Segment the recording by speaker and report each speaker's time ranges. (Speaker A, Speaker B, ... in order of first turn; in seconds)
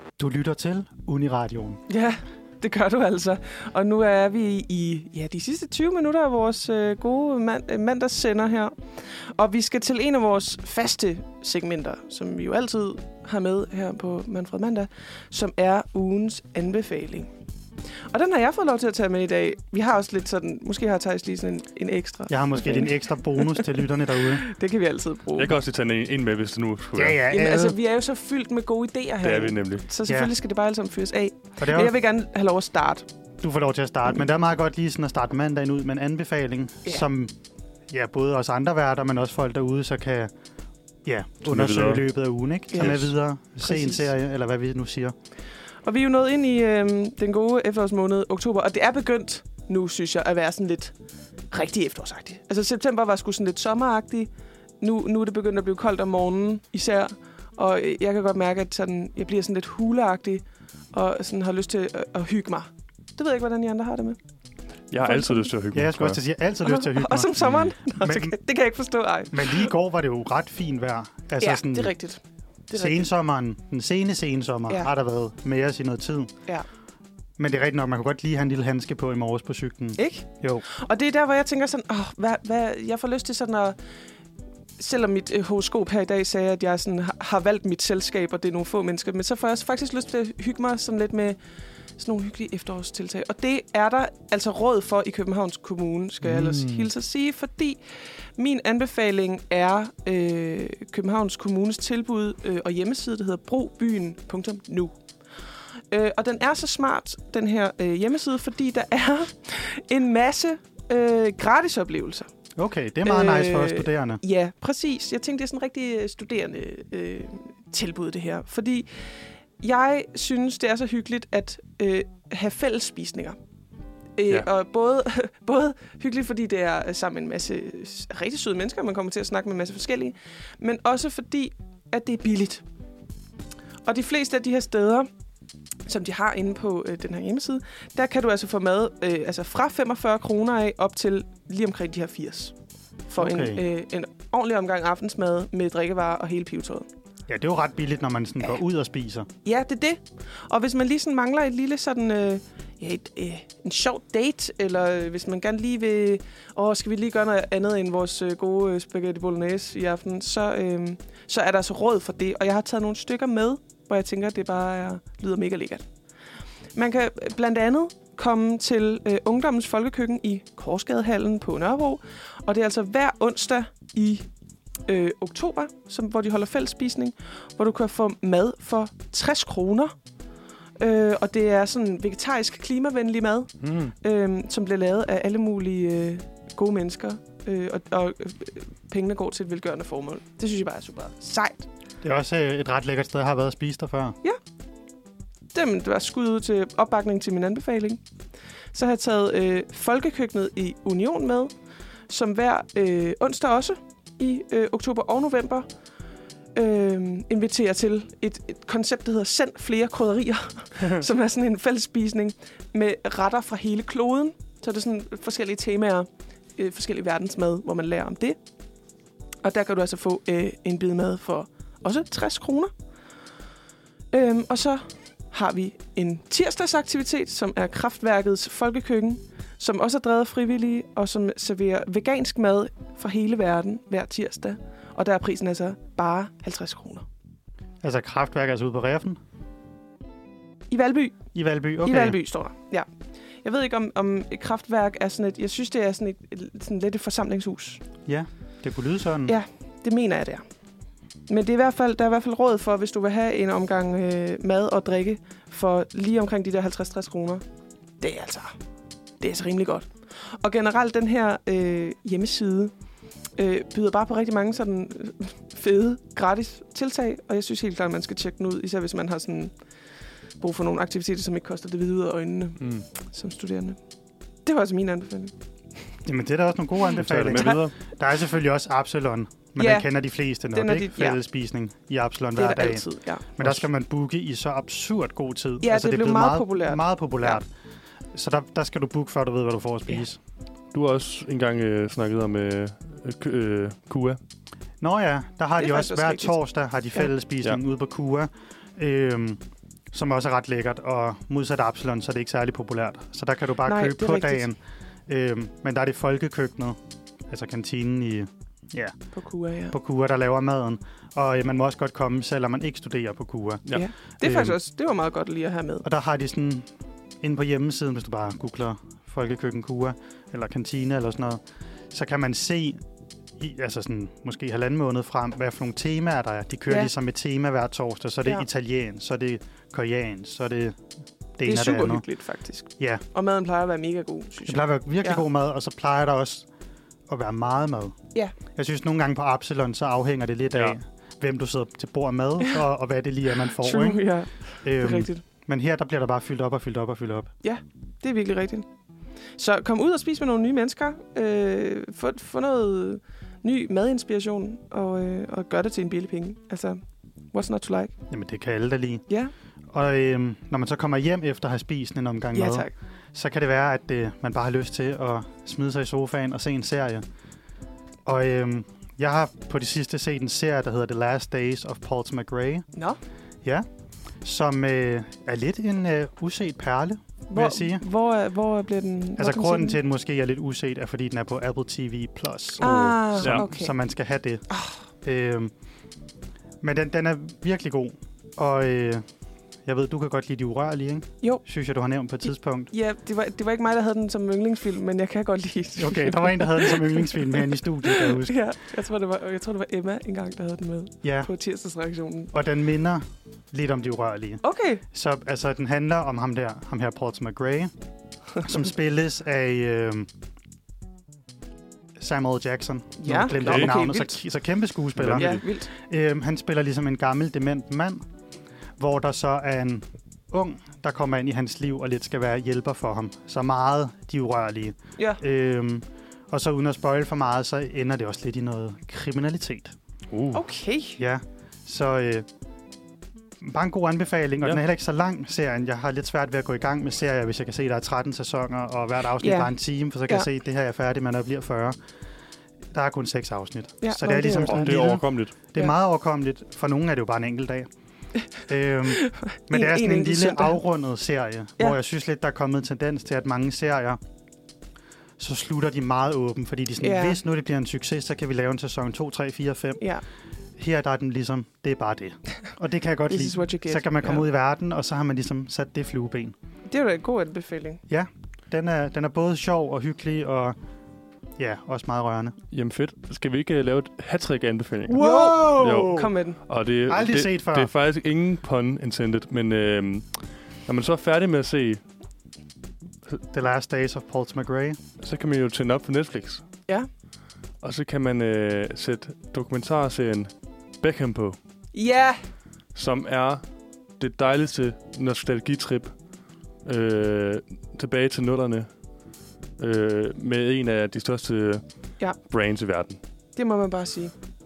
Speaker A: 0.2-1.8, 22.3-24.5, 26.9-27.8, 30.1-30.3, 31.6-32.0, 33.4-37.3, 37.9-40.3, 41.0-45.1, 65.7-68.4, 69.3-71.9, 72.7-76.3, 77.4-80.7, 112.6-114.2, 143.2-143.6, 147.3-149.3, 192.0-194.2, 237.8-239.2, 241.3-242.2, 248.1-249.3, 276.1-287.5, 288.1-290.2, 294.8-299.4, 299.9-304.6, 305.1-306.8, 307.3-308.9, 309.7-313.6, 314.2-314.6, 315.8-316.7, 317.2-322.8, 323.4-330.8, 331.4-332.1, 332.8-333.0, 334.5-336.5, 337.1-338.0, 338.5-344.0, 344.6-347.3, 358.1-359.1, 359.7-367.1, 368.1-372.6, 374.2-377.8, 379.2-384.5, 385.0-385.5, 386.6-389.1, 389.7-392.7, 395.8-398.5, 401.0-401.3, 402.3-407.7, 408.4-410.1, 412.0-418.0, 418.8-429.8, 431.0-432.3, 433.4-441.8, 442.7-447.7, 448.5-454.0, 455.2-459.8, 460.6-466.4, 467.9-470.6, 471.4-472.4, 474.9-476.1, 476.9-477.7, 483.3-484.8
Speaker B: 1.9-17.3, 18.1-23.7, 24.3-25.6, 27.3-33.1, 42.7-43.0, 43.6-44.1, 45.8-50.9, 51.5-54.3, 54.8-64.2, 65.0-65.5, 66.6-69.7, 71.4-73.1, 80.0-83.8, 84.8-91.4, 92.0-97.8, 98.4-105.0, 105.9-112.3, 113.0-118.9, 119.6-123.4, 124.2-132.6, 133.8-135.1, 135.9-142.5, 143.1-146.9, 149.4-165.8, 166.8-174.3, 174.9-179.9, 180.8-191.7, 195.5-198.0, 198.7-201.5, 202.1-205.7, 206.6-218.4, 219.4-222.7, 224.1-237.1, 240.7-241.2, 241.8-242.9, 243.4-247.8, 249.3-250.4, 251.3-257.4, 258.0-258.6, 259.2-262.7, 263.4-269.5, 270.4-273.8, 274.4-275.3, 277.3-277.6, 279.6-279.9, 280.5-281.2, 282.4-283.2, 285.6-287.4, 295.6-296.4, 303.6-304.5, 309.1-309.8, 313.7-315.9, 331.4-335.2, 343.4-345.2, 347.4-348.7, 349.4-357.9, 362.4-362.7, 377.3-379.8, 382.6-383.7, 384.5-384.8, 392.7-402.3, 404.4-404.8, 413.0-414.2, 415.1-415.7, 430.3-431.0, 439.2-439.5, 443.8-444.9, 448.9-450.6, 456.8-457.2, 463.1-464.2, 466.7-467.8, 475.0-476.4, 491.7-492.2, 503.4-504.1
Speaker C: 25.4-27.2, 29.2-29.9, 41.4-42.0, 42.8-43.1, 64.9-66.2, 96.2-96.9, 183.6-183.9, 272.6-272.9, 277.0-277.7, 283.4-283.7, 290.7-294.2, 383.2-383.4, 413.3-413.7, 415.0-415.4, 430.1-430.4, 444.4-445.3, 472.5-481.8, 485.0-486.4, 487.6-491.4, 492.8-493.4, 494.0-495.9, 496.6-498.7, 499.6-501.6, 502.2-503.0